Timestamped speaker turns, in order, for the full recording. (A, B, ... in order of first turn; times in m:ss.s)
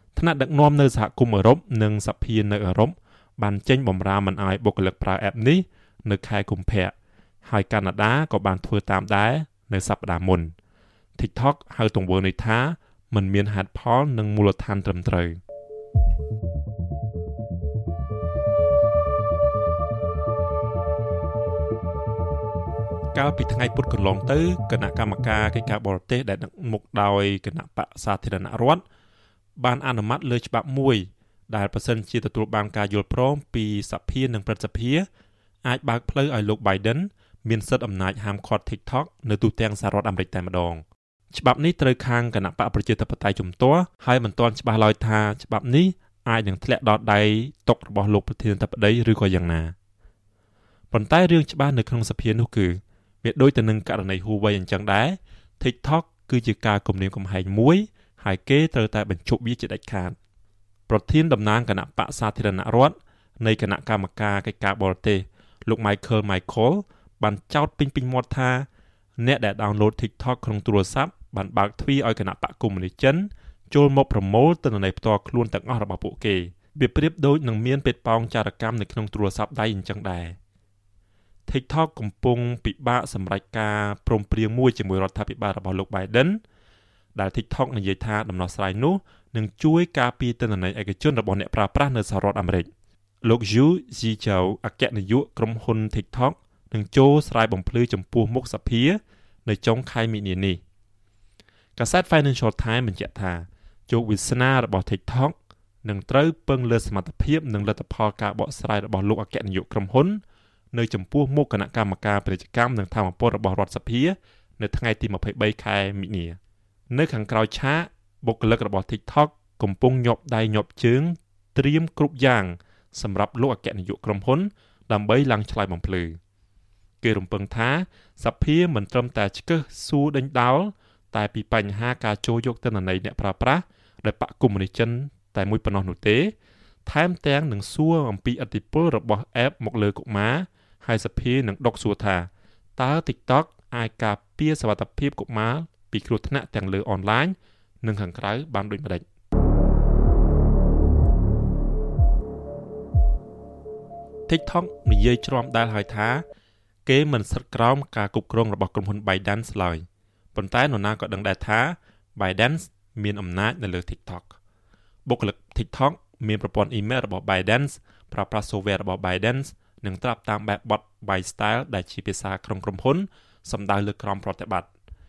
0:00.2-0:10.5 A
0:11.2-0:15.4 A
0:23.1-0:28.8 A
0:29.6-0:35.0 A
0:35.6-0:49.7 A
0:50.9-1:00.2 A
1:00.9-1:08.7 A
1:09.2-1:20.4 A
1:21.5-1:26.4 A
1:27.1-1:32.7 A
1:33.2-1:40.6 A
1:41.8-1:50.2 A
1:50.7-1:56.4 A
1:56.9-2:06.2 A
2:07.0-2:16.3 A
2:16.8-2:29.0 A
2:34.3-2:36.2 A
2:36.8-2:44.4 A
2:45.0-2:54.7 A